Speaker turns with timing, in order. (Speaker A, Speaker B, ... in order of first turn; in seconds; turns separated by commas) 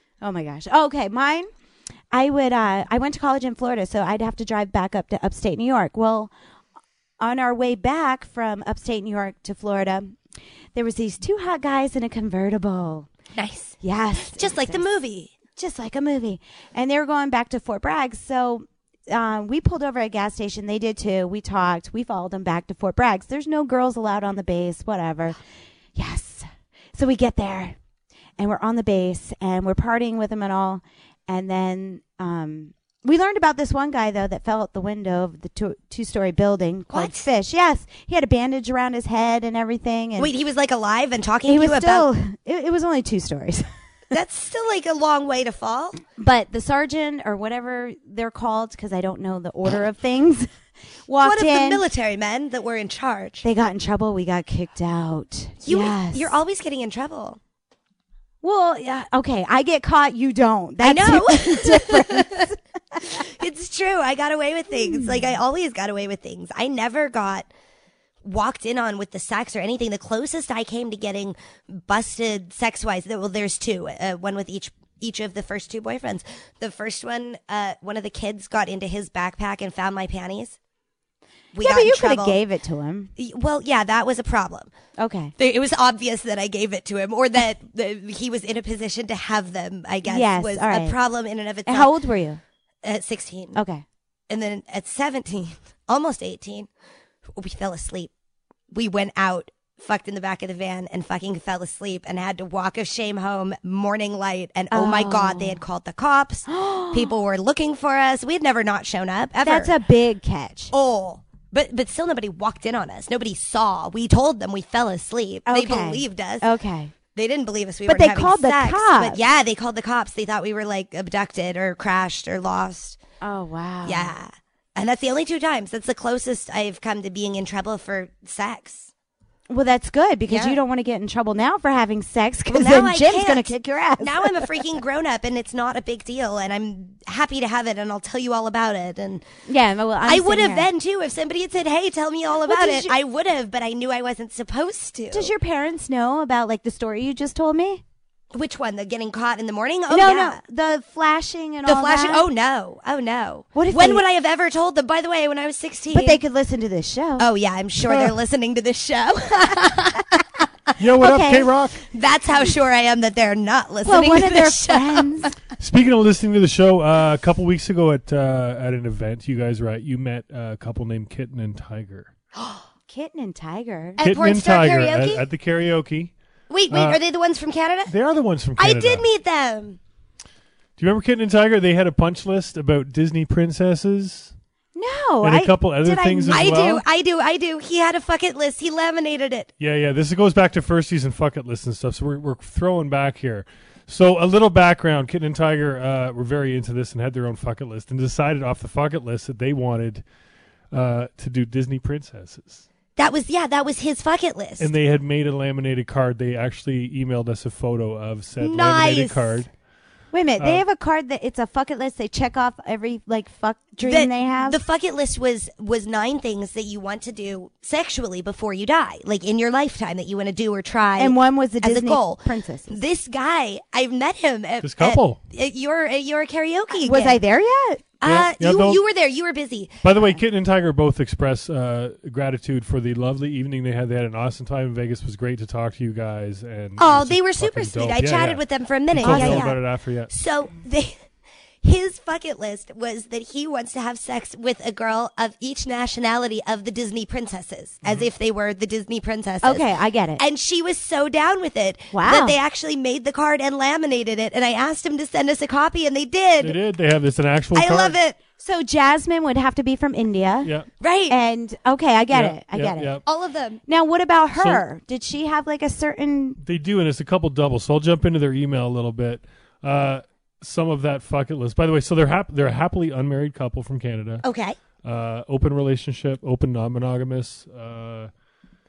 Speaker A: 0.2-1.5, Speaker A: 2.1-6.3, Speaker A: 7.2-10.2, Speaker A: 10.7-13.1, Speaker B: 13.3-15.3, Speaker A: 13.8-14.8, Speaker A: 15.6-25.4, Speaker A: 25.9-27.8, Speaker A: 28.4-40.3, Speaker B: 36.9-37.2, Speaker B: 40.2-42.1, Speaker A: 41.5-43.6, Speaker B: 44.1-46.0, Speaker A: 46.2-50.5, Speaker A: 51.1-51.8, Speaker B: 51.2-53.4, Speaker A: 53.4-56.4, Speaker B: 55.6-57.4, Speaker A: 58.4-63.0, Speaker B: 60.8-62.5, Speaker B: 63.0-67.5, Speaker B: 68.2-80.5, Speaker B: 81.5-82.4, Speaker A: 81.6-83.1, Speaker B: 83.2-84.7, Speaker A: 85.0-85.3, Speaker B: 85.4-91.9, Speaker A: 90.0-90.9, Speaker A: 91.7-92.4, Speaker B: 92.8-93.6, Speaker A: 93.5-93.8, Speaker B: 94.3-96.7, Speaker B: 97.3-98.1, Speaker B: 98.7-109.7, Speaker A: 104.7-105.6, Speaker A: 106.5-107.1, Speaker A: 109.4-110.7, Speaker B: 110.7-116.5, Speaker A: 115.5-116.9, Speaker B: 117.1-123.0, Speaker A: 117.9-119.2, Speaker A: 123.2-124.1, Speaker B: 123.8-128.9, Speaker A: 129.5-134.5, Speaker B: 130.3-130.6, Speaker B: 132.5-139.2, Speaker A: 139.5-140.7, Speaker B: 140.0-145.3, Speaker A: 142.4-142.9, Speaker A: 145.1-147.8, Speaker B: 148.3-150.4, Speaker A: 149.9-152.2, Speaker B: 151.7-156.2, Speaker A: 153.5-154.0, Speaker A: 155.9-157.3, Speaker B: 157.2-160.2, Speaker C: 160.8-161.8, Speaker A: 161.0-161.5, Speaker B: 161.8-165.3, Speaker A: 163.8-165.3, Speaker C: 165.6-172.1, Speaker B: 172.3-172.6, Speaker A: 172.9-174.0, Speaker B: 174.0-175.2, Speaker C: 174.0-176.1, Speaker B: 176.5-177.9, Speaker C: 176.7-177.0, Speaker C: 177.9-179.0, Speaker B: 178.6-179.8, Speaker C: 180.8-184.3, Speaker A: 184.8-186.6, Speaker C: 185.2-186.8, Speaker B: 186.3-189.5, Speaker C: 189.6-200.0, Speaker C: 200.7-202.7, Speaker B: 203.0-204.7, Speaker C: 204.6-209.5, Speaker B: 208.4-209.4, Speaker A: 210.1-214.6, Speaker C: 210.4-210.6, Speaker B: 213.8-227.2, Speaker A: 221.0-222.8, Speaker C: 224.6-225.2, Speaker A: 226.8-227.8, Speaker B: 228.0-230.2, Speaker C: 228.0-228.8, Speaker C: 229.8-240.1, Speaker B: 236.8-240.9, Speaker A: 239.0-239.5, Speaker B: 241.6-256.6, Speaker C: 247.8-248.1, Speaker A: 249.4-250.2, Speaker A: 251.9-252.4, Speaker C: 256.4-258.0, Speaker B: 257.5-258.2, Speaker A: 258.4-260.5, Speaker B: 260.8-261.2, Speaker A: 261.1-263.0, Speaker C: 262.1-263.0, Speaker B: 263.0-263.6, Speaker A: 263.7-266.4, Speaker C: 264.4-264.6, Speaker C: 266.4-274.2, Speaker B: 274.2-274.6, Speaker C: 274.8-278.1